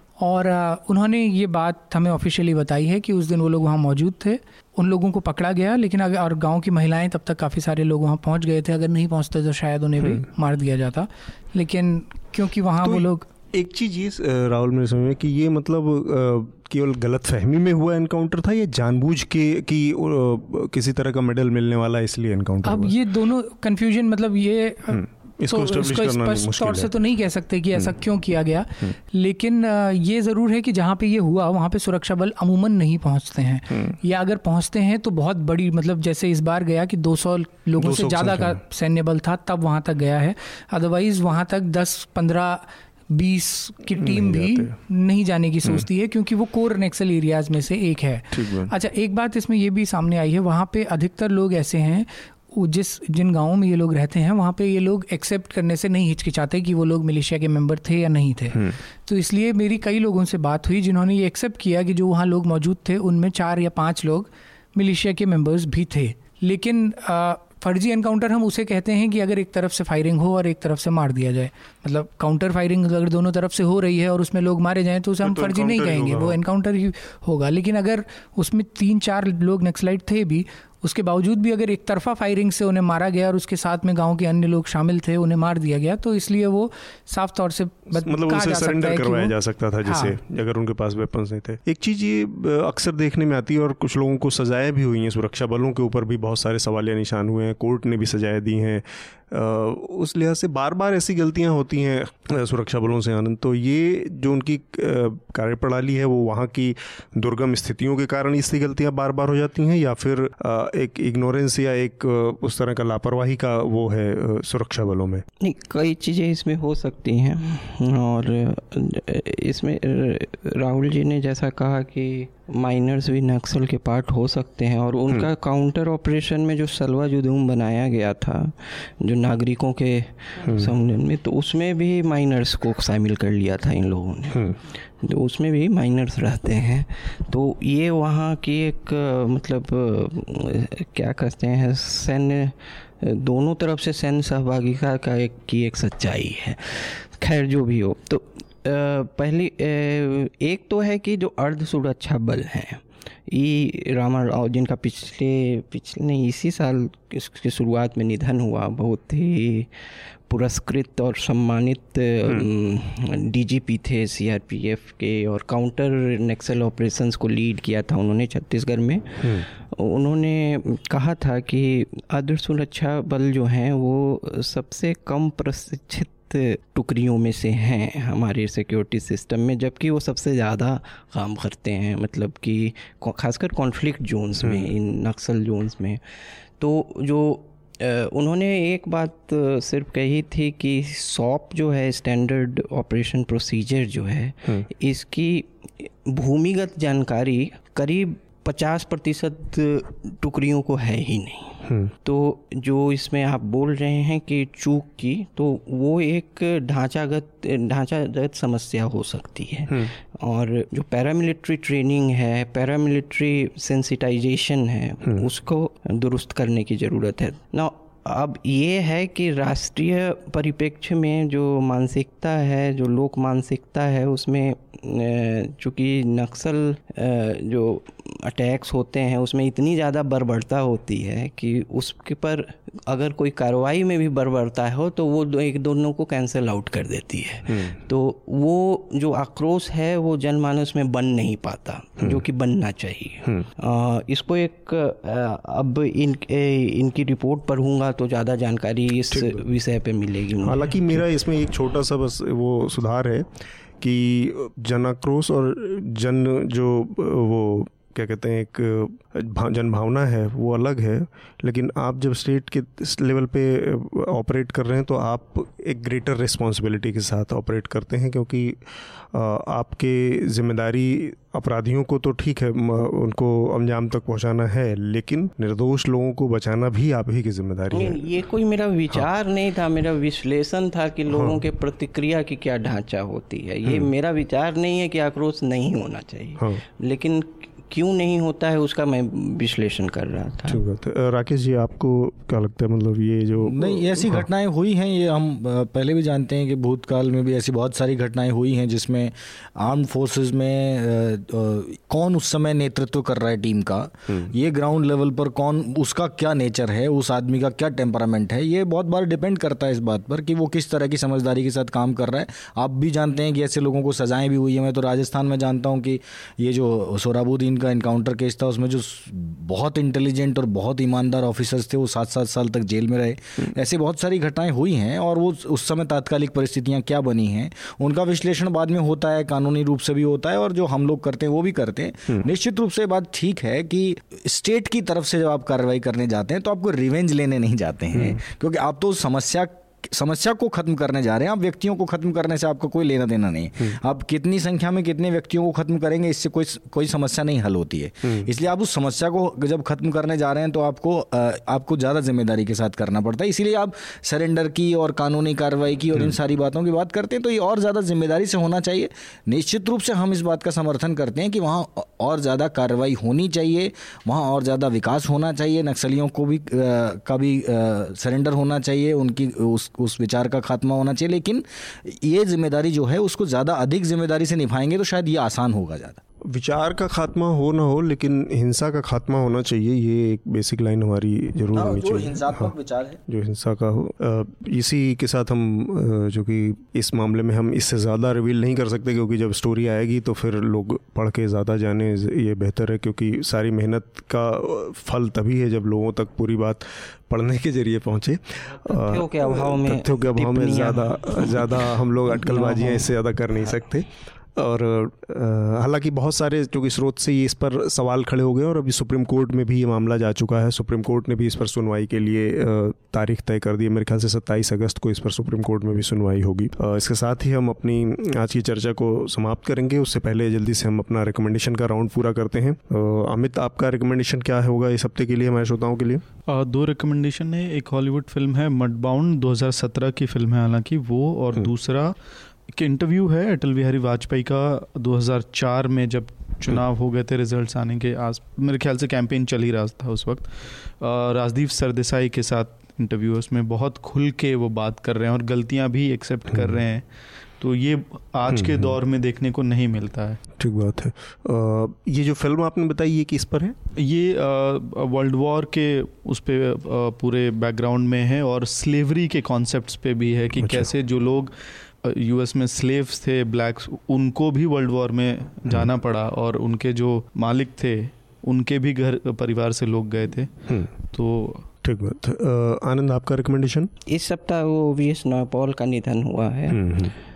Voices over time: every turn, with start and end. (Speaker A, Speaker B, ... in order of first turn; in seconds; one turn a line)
Speaker A: 0.2-13.3
Speaker B: 12.8-22.9
Speaker A: 22.6-89.3
Speaker B: 24.9-26.9
Speaker B: 37.8-38.6
Speaker B: 44.0-44.7
Speaker B: 48.3-48.7
Speaker B: 75.2-76.4
Speaker B: 87.9-115.2
Speaker A: 89.8-90.2
Speaker C: 115.4-251.0
Speaker B: 130.4-130.7
Speaker B: 184.4-184.7
Speaker B: 201.7-201.9
Speaker B: 237.5-237.8
Speaker B: 249.1-249.4
Speaker B: 250.4-253.3
Speaker B: 253.8-278.1
Speaker C: 277.7-290.6
Speaker B: 281.1-281.4
Speaker B: 290.5-294.3
Speaker D: 293.4-376.0
Speaker B: 304.1-304.3
Speaker B: 337.9-338.2
Speaker B: 376.3-382.5
Speaker D: 381.5-383.0
Speaker B: 383.1-426.1
Speaker C: 398.6-403.6
Speaker E: 426.2-432.0
Speaker E: 432.5-446.9
Speaker E: 447.4-450.2
Speaker B: 448.3-448.8
Speaker B: 450.4-453.6
Speaker E: 453.8-471.5
Speaker B: 460.4-460.7
Speaker B: 471.6-473.7
Speaker C: 473.9-476.6
Speaker B: 476.5-476.9